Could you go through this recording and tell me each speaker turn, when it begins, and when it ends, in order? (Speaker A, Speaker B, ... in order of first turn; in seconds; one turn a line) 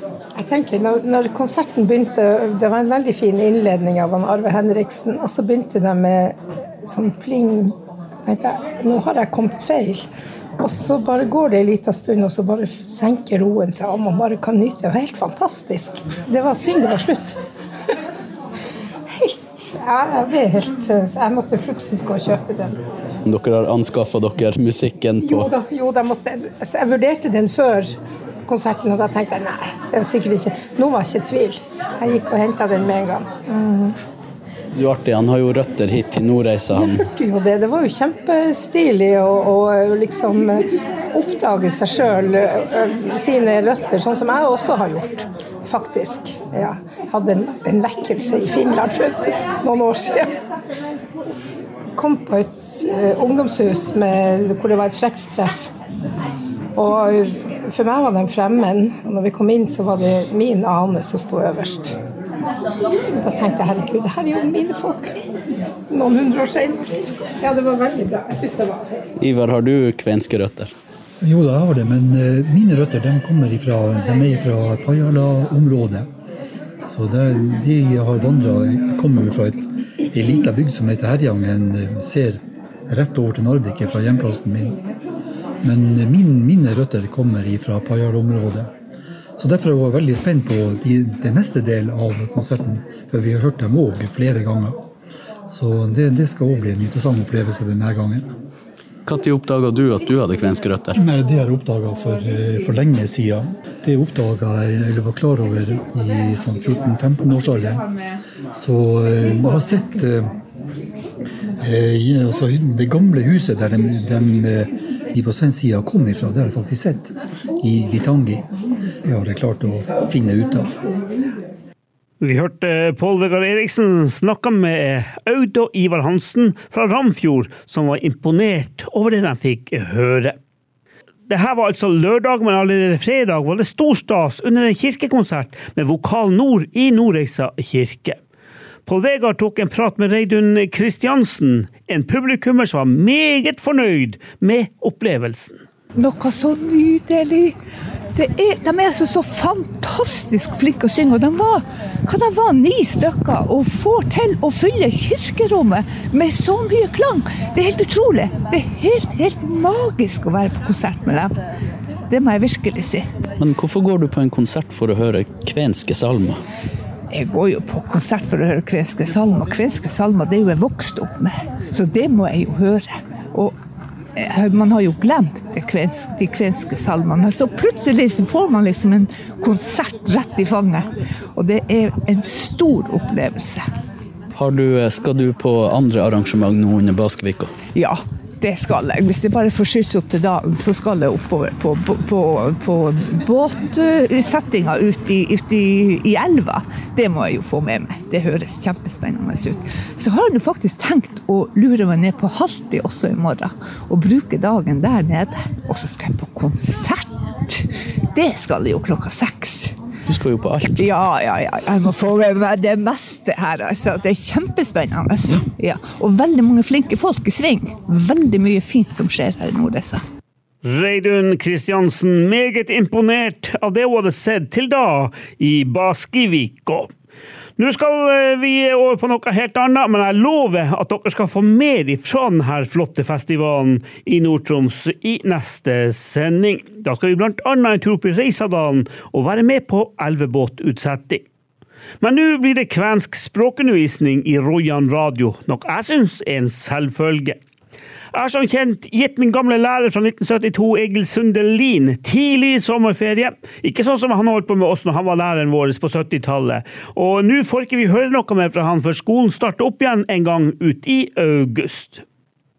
Speaker A: 0.3-10.1
Speaker A: 10.6-17.4
Speaker A: 19.1-22.8
Speaker B: 23.2-25.5
Speaker A: 25.2-27.9
Speaker A: 28.5-33.9
Speaker B: 34.7-37.1
Speaker A: 36.8-50.4
Speaker A: 51.9-55.7
Speaker A: 56.7-61.9
Speaker A: 62.9-65.1
Speaker A: 65.9-69.0
Speaker B: 69.2-70.7
Speaker C: 71.2-76.1
Speaker C: 76.9-84.8
Speaker C: 85.6-88.7
Speaker C: 89.4-94.8
Speaker C: 95.5-98.3
Speaker B: 99.0-101.0
Speaker C: 101.0-107.9
Speaker C: 108.5-110.3
Speaker C: 111.6-118.5
Speaker C: 119.0-120.8
Speaker D: 122.2-130.3
Speaker D: 131.3-138.2
Speaker D: 138.8-145.6
Speaker E: 145.9-147.6
Speaker E: 148.1-161.3
Speaker E: 162.1-163.1
Speaker B: 163.4-166.4
Speaker E: 167.1-173.6
Speaker E: 174.2-183.7
Speaker B: 184.3-187.5
Speaker E: 187.7-209.8
Speaker B: 210.1-210.8
Speaker E: 210.8-220.0
Speaker D: 220.6-226.9
Speaker D: 227.6-241.2
Speaker D: 242.0-247.4
Speaker D: 248.1-262.0